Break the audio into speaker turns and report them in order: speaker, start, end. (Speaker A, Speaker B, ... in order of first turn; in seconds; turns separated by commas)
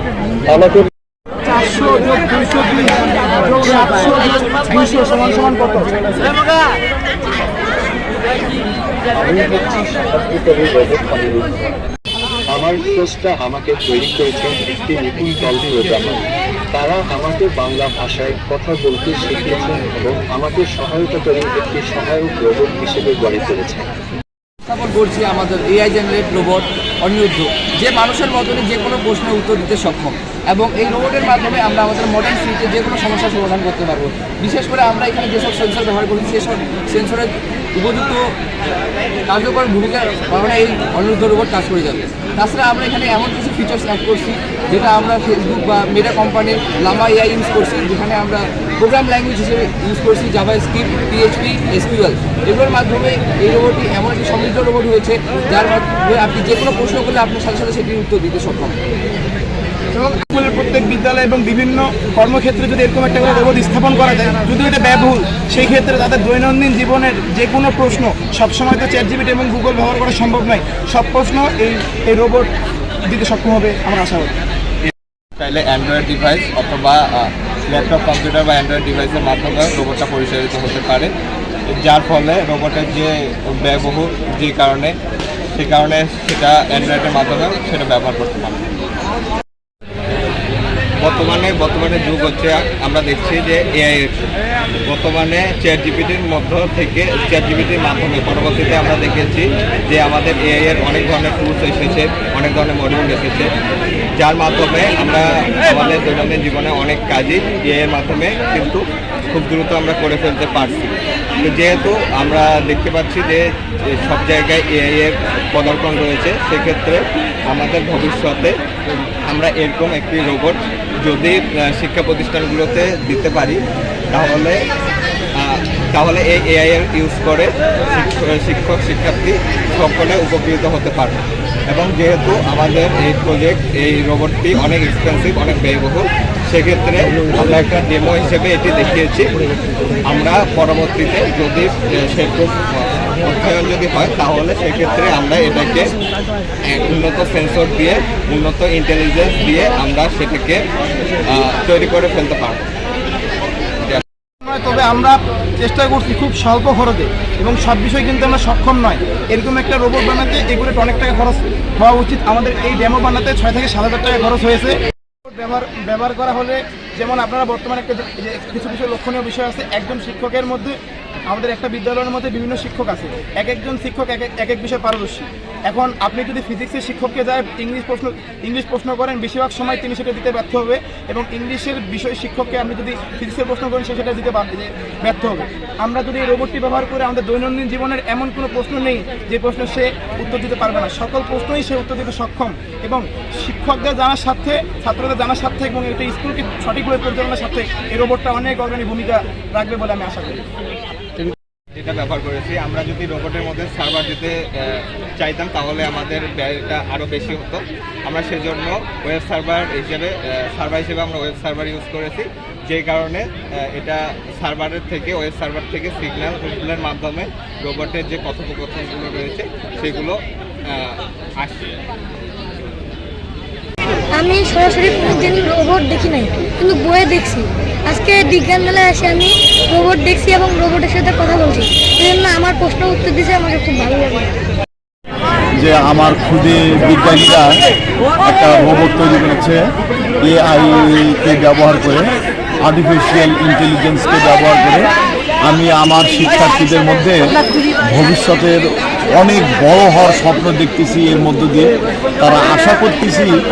Speaker A: 0.5-0.9, Speaker B: 1.5-6.3, Speaker A: 9.1-11.6, Speaker A: 12.5-23.9, Speaker C: 24.7-38.2, Speaker C: 39.3-58.8, Speaker B: 59.9-72.5, Speaker B: 73.1-74.3, Speaker D: 75.4-81.1, Speaker D: 81.8-84.9, Speaker D: 85.5-88.7, Speaker D: 91.0-94.1, Speaker D: 94.9-103.5, Speaker D: 104.2-118.5, Speaker D: 119.3-123.6, Speaker D: 124.1-124.6, Speaker D: 125.4-139.3, Speaker D: 140.1-145.9, Speaker D: 146.7-150.6, Speaker D: 151.3-152.7, Speaker B: 154.4-170.7, Speaker B: 171.3-200.5, Speaker D: 201.8-220.2, Speaker D: 220.7-221.7, Speaker E: 224.2-234.3, Speaker F: 235.6-237.6, Speaker F: 238.2-239.6, Speaker F: 240.2-242.1, Speaker F: 242.7-244.9, Speaker F: 245.4-248.6, Speaker F: 249.2-253.3